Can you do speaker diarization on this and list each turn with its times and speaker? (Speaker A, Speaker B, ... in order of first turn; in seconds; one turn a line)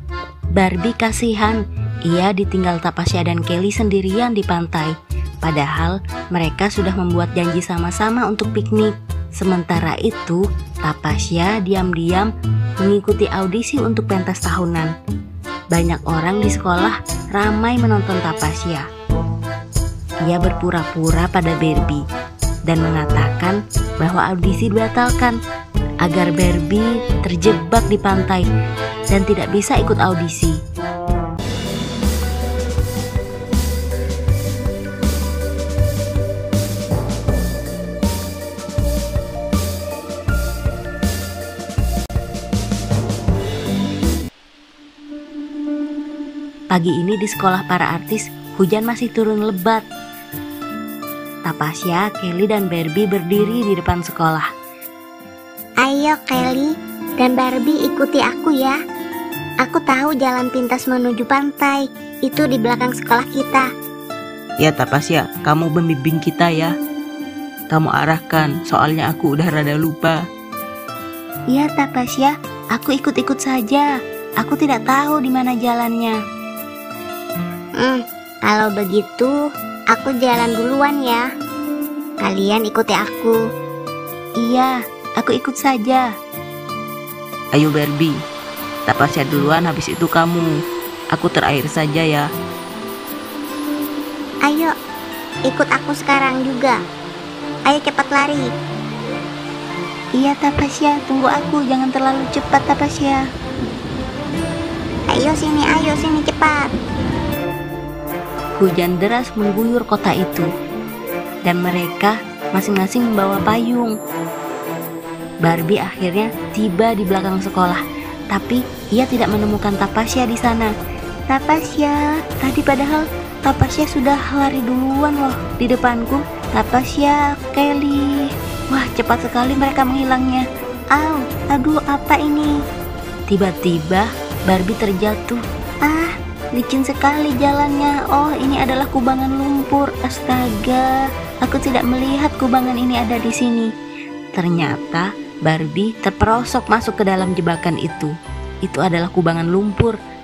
Speaker A: 0.6-12.3
Speaker A: 12.8-14.9
Speaker A: 15.7-18.9
Speaker A: 20.2-22.0
Speaker A: 22.7-25.4
Speaker A: 26.0-28.4
Speaker A: 29.1-30.6
Speaker A: 46.7-49.8
Speaker A: 51.5-54.5
Speaker B: 55.8-58.8
Speaker B: 59.6-63.7
Speaker C: 64.6-66.7
Speaker A: 66.0-66.7
Speaker C: 67.7-70.2
Speaker A: 67.8-69.9
Speaker A: 71.5-73.9
Speaker A: 74.4-76.2
Speaker B: 77.8-79.3
Speaker B: 79.9-81.2
Speaker B: 82.2-83.4
Speaker A: 84.4-86.0
Speaker C: 87.6-88.1
Speaker C: 88.9-90.4
Speaker A: 88.9-90.4
Speaker C: 91.1-92.2
Speaker A: 91.4-92.2
Speaker B: 95.5-96.8
Speaker B: 97.7-98.5
Speaker A: 100.1-103.2
Speaker B: 105.1-106.7
Speaker A: 108.6-110.5
Speaker A: 111.5-113.9
Speaker A: 115.4-117.8
Speaker A: 118.3-120.7
Speaker A: 121.3-132.5
Speaker A: 133.3-143.7
Speaker A: 144.4-148.1
Speaker A: 148.6-149.9